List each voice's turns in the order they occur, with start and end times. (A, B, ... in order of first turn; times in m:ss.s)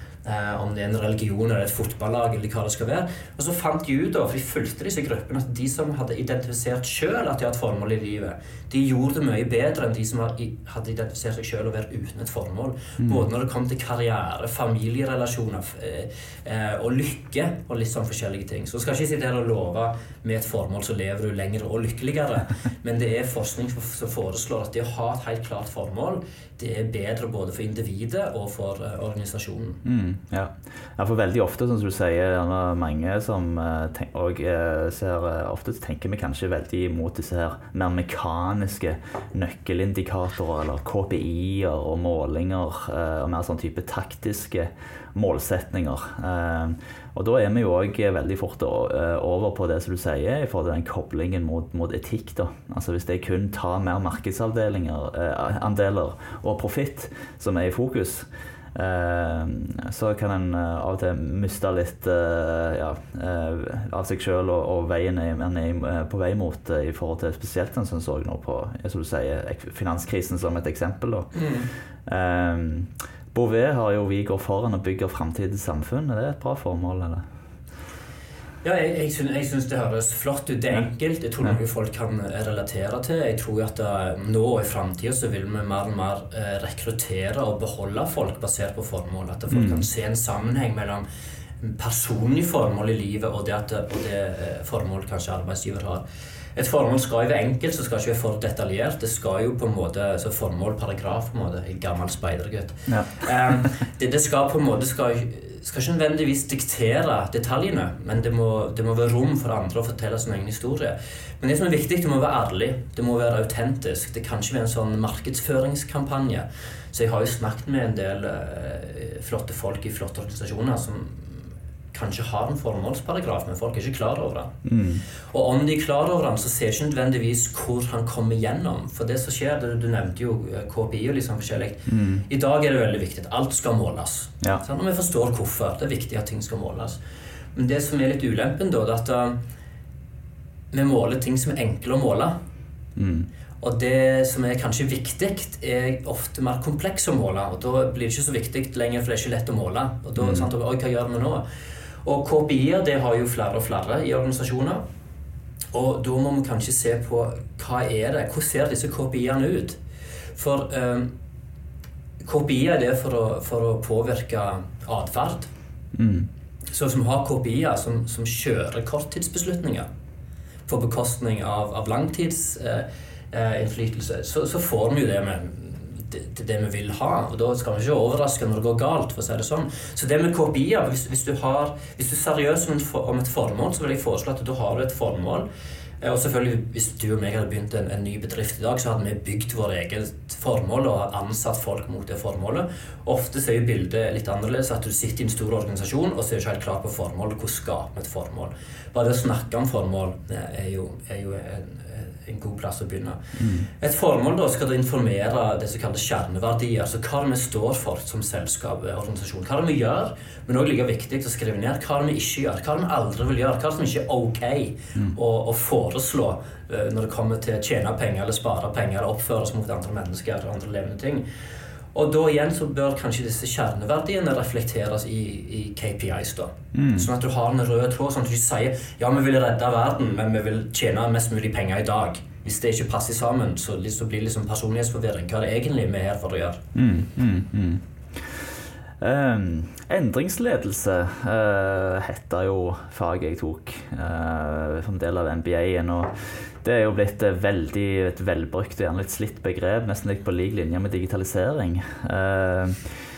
0:00.2-0:29.8 A
0:13.0-0:13.2 B
0:29.8-1:11.3 B
1:11.3-1:11.7 A
1:12.0-1:17.2 B
1:18.6-1:31.0 A
1:29.5-1:29.8 B
1:31.6-1:36.0 A
1:36.5-2:04.5 A
1:42.9-1:43.1 B
2:04.6-2:05.0 B
2:05.3-2:17.0 A
2:11.9-2:12.2 B
2:17.5-2:19.4 A
2:20.7-2:22.3 A
2:23.0-2:23.3 B
2:23.6-2:31.4 A
2:30.2-2:30.4 B
2:32.0-2:34.8 A
2:35.7-2:39.8 A
2:40.4-2:41.1 A
2:42.2-2:45.5 A
2:45.9-2:46.3 B
2:46.7-2:49.9 A
2:50.7-3:05.5 A
3:06.0-3:41.2 A
3:23.4-3:23.7 B
3:41.9-3:56.6 A
3:46.7-3:47.1 B
3:56.7-3:58.5 B
3:59.0-4:13.0 B